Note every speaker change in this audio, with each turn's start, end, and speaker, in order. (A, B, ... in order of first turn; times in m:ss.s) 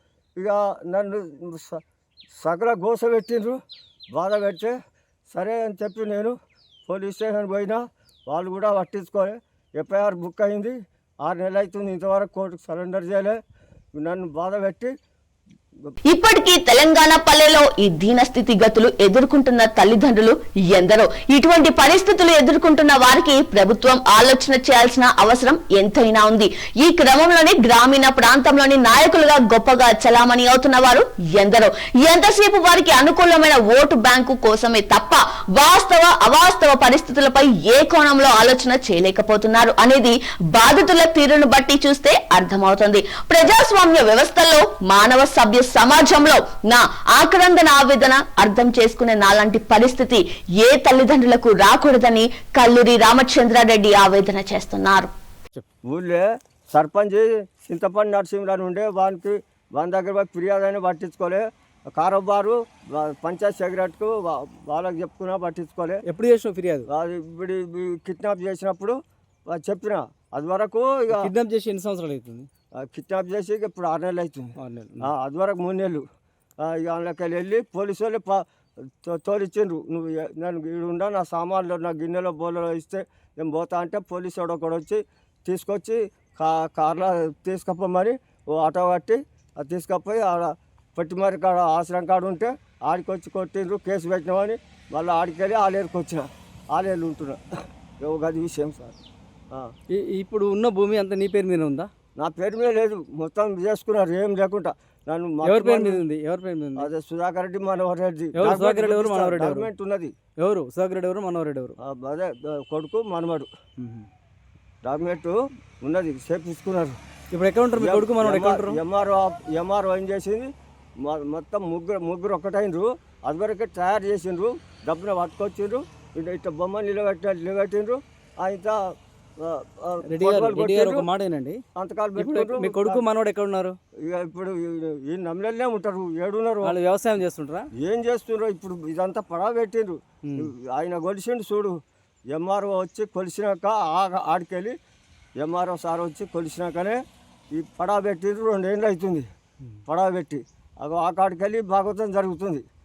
0:00.4-0:01.8 A
0:02.4-0:03.6 A
0:04.1-0:04.8 A
0:05.3-0:06.4 A
0:06.9-0:13.4 A
0:14.0-0:14.9 A
0:16.1-0:55.1 B
0:55.9-1:06.0 A
1:06.0-1:06.9 C
1:06.9-1:11.3 A
1:11.1-1:12.5 C
1:12.8-1:16.0 A
1:14.6-1:15.1 C
1:16.6-1:18.4 A
1:19.0-1:37.4 A
1:38.0-1:39.0 A
1:39.9-1:41.9 C
1:42.2-1:46.0 A
1:45.4-1:46.9 C
1:46.8-1:50.1 A
1:48.4-1:49.7 C
1:50.4-1:51.7 C
1:51.8-1:53.5 A
1:53.8-1:54.1 C
1:54.8-1:57.0 A
1:57.3-1:58.8 C
1:57.8-2:00.5 A
2:01.0-2:08.8 A
2:09.4-2:11.1 A
2:10.0-2:11.6 C
2:11.8-2:13.0 A
2:12.2-2:13.8 C
2:14.0-2:16.8 A
2:16.6-2:17.7 C
2:17.8-2:21.7 A
2:22.3-2:24.8 A
2:25.4-2:27.0 A
2:27.5-2:29.3 A
2:29.9-2:32.6 A